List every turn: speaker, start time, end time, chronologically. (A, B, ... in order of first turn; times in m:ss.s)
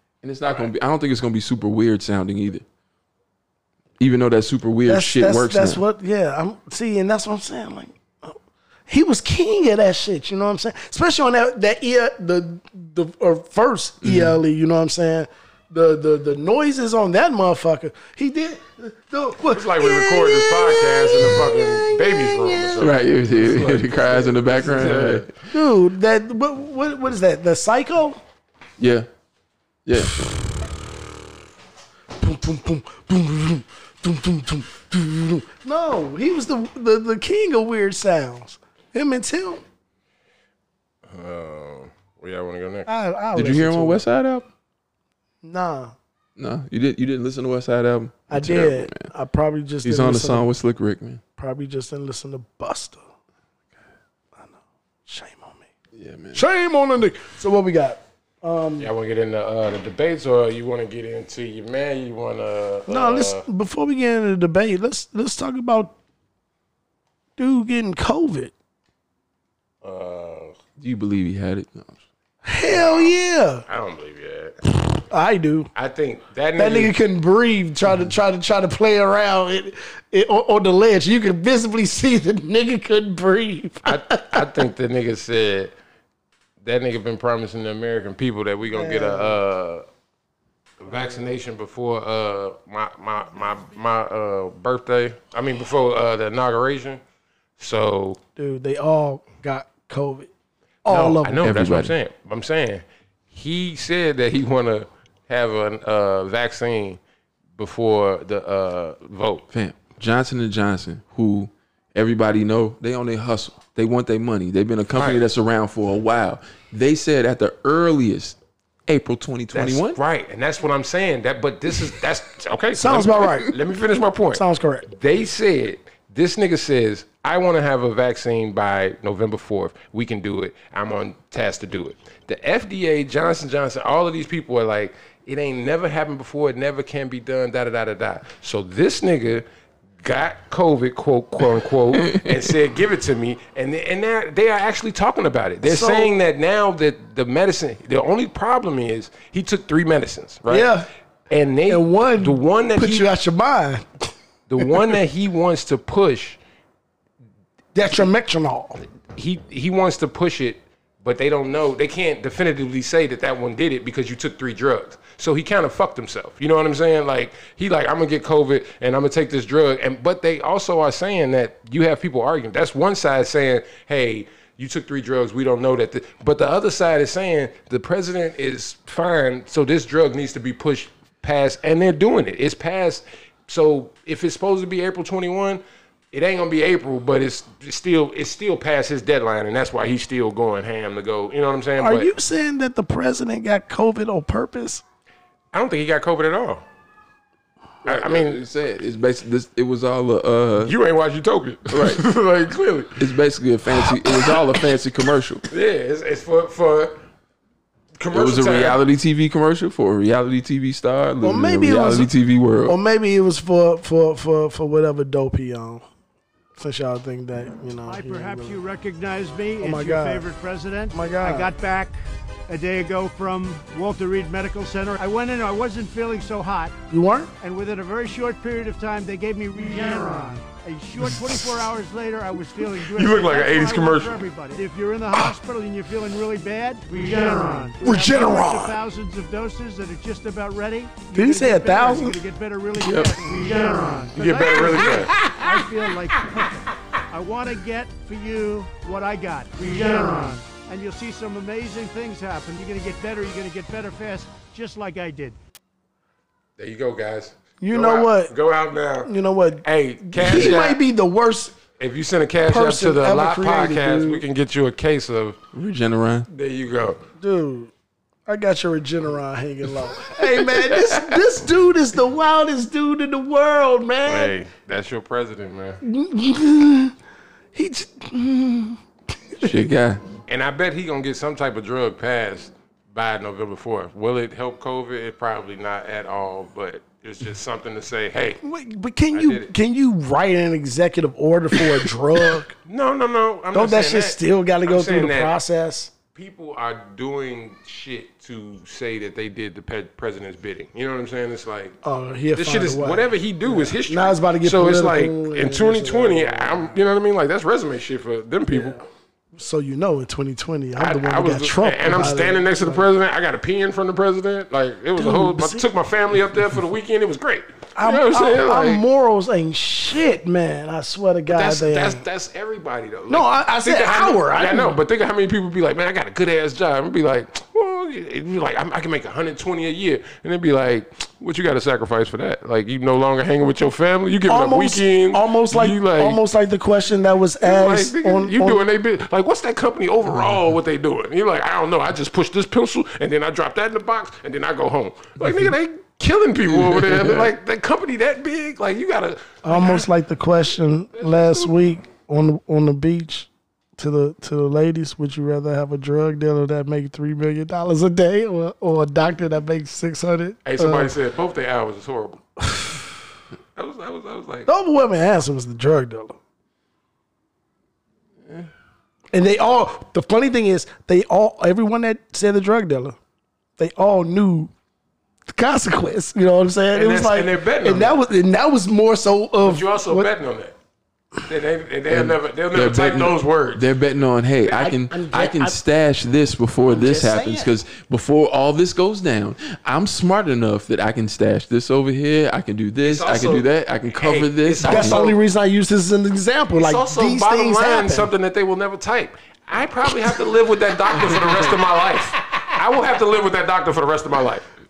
0:00.2-0:02.6 A
0:04.0-0:05.8 A
0:04.9-0:08.4 B
0:08.9-0:22.9 B
0:14.0-0:14.4 A
0:19.5-0:25.3 C
0:22.8-0:25.3 A
0:25.5-0:28.2 B
0:28.8-0:29.1 A
0:29.8-0:30.2 A
0:32.2-0:39.6 B
0:41.1-0:42.9 C
0:42.9-0:44.0 B
0:43.3-0:44.5 A
0:45.4-0:45.9 B
0:46.4-0:49.1 A
0:48.3-0:50.5 B
0:49.8-0:51.2 A
0:51.4-0:53.0 B
0:54.4-0:55.6 B
0:55.9-0:56.4 A
0:56.3-0:58.9 B
0:58.8-1:03.4 C
1:02.9-1:05.9 B
1:07.4-1:08.5 B
1:09.8-1:10.5 C
1:10.8-1:12.0 A
1:12.4-1:13.6 B
1:12.7-1:13.1 C
1:13.7-1:14.6 C
1:14.9-1:15.7 B
1:15.7-1:16.9 C
1:16.6-1:24.4 B
1:23.8-1:25.7 C
1:26.6-1:29.8 C
1:28.7-1:29.4 B
1:30.8-1:37.0 C
1:37.6-1:38.2 C
1:38.4-1:40.3 B
1:40.8-1:41.4 B
1:40.9-1:47.0 C
1:41.4-1:41.9 A
1:47.6-1:49.4 C
1:49.5-2:00.0 A
1:55.0-1:55.2 C
1:59.5-2:19.4 C
2:02.8-2:03.5 B
2:04.3-2:04.9 B
2:20.0-2:30.7 C
2:22.0-2:22.4 A
2:25.6-2:26.1 B
2:30.5-2:30.9 B
2:31.3-2:33.1 C
2:31.7-2:33.8 B
2:34.5-2:36.4 C
2:37.7-2:38.8 B
2:39.1-3:12.1 C
3:11.8-3:14.8 B
3:15.5-3:16.6 C
3:17.8-3:18.4 C
3:17.8-3:20.7 A
3:20.6-3:23.0 C
3:21.7-3:22.0 A
3:23.0-3:25.4 A
3:25.5-3:27.0 C
3:28.0-3:28.8 C
3:28.1-3:32.8 A
3:31.2-3:32.1 B
3:32.6-3:35.8 B
3:36.6-3:38.6 B
3:37.9-3:46.7 D
3:39.6-3:40.3 B
3:40.9-3:41.5 B
3:46.9-3:47.3 B
3:47.4-4:15.4 D
3:52.9-3:54.2 C
3:57.8-3:58.8 B
4:01.1-4:02.2 B
4:02.8-4:03.2 A
4:04.2-4:05.1 C
4:16.6-4:19.1 C
4:17.6-4:18.3 B
4:19.0-4:21.5 B
4:19.6-4:20.8 C
4:21.8-4:25.4 C
4:22.5-4:24.2 B
4:25.5-4:26.3 A
4:26.3-4:27.0 C
4:27.2-4:27.7 B
4:28.3-4:34.3 B
4:30.4-4:31.2 A
4:34.0-4:35.8 C
4:35.8-4:36.9 B
4:37.5-4:38.8 B
4:39.3-4:39.6 B
4:39.4-4:40.0 A
4:40.3-4:48.4 C
4:48.4-4:52.5 B
4:49.1-4:49.5 C
4:52.6-4:55.4 C
4:53.5-4:55.9 B
4:56.1-5:01.8 C
5:01.8-5:06.8 B
5:02.4-5:08.8 C
5:08.5-5:08.8 B
5:09.4-5:12.8 B
5:10.8-5:18.8 C
5:15.0-5:15.7 B
5:17.8-5:22.0 B
5:21.3-5:36.2 C
5:23.1-5:24.8 B
5:34.3-5:38.6 B
5:37.4-5:49.9 C
5:40.1-5:40.4 A
5:45.2-5:45.5 A
5:46.5-5:47.3 A
5:49.4-6:00.9 B
5:50.9-5:51.5 C
6:00.4-6:02.2 C
6:02.4-6:02.8 B
6:03.6-6:04.5 C
6:04.5-6:06.2 B
6:09.1-6:13.0 B
6:13.6-6:14.5 B
6:15.3-6:20.1 B
6:16.7-6:18.0 C
6:19.4-6:20.5 C
6:21.2-6:23.7 C
6:21.9-6:35.0 A
6:24.5-6:25.6 B
6:26.7-6:27.5 B
6:32.8-6:35.2 C
6:34.6-6:38.1 B
6:36.5-6:44.5 C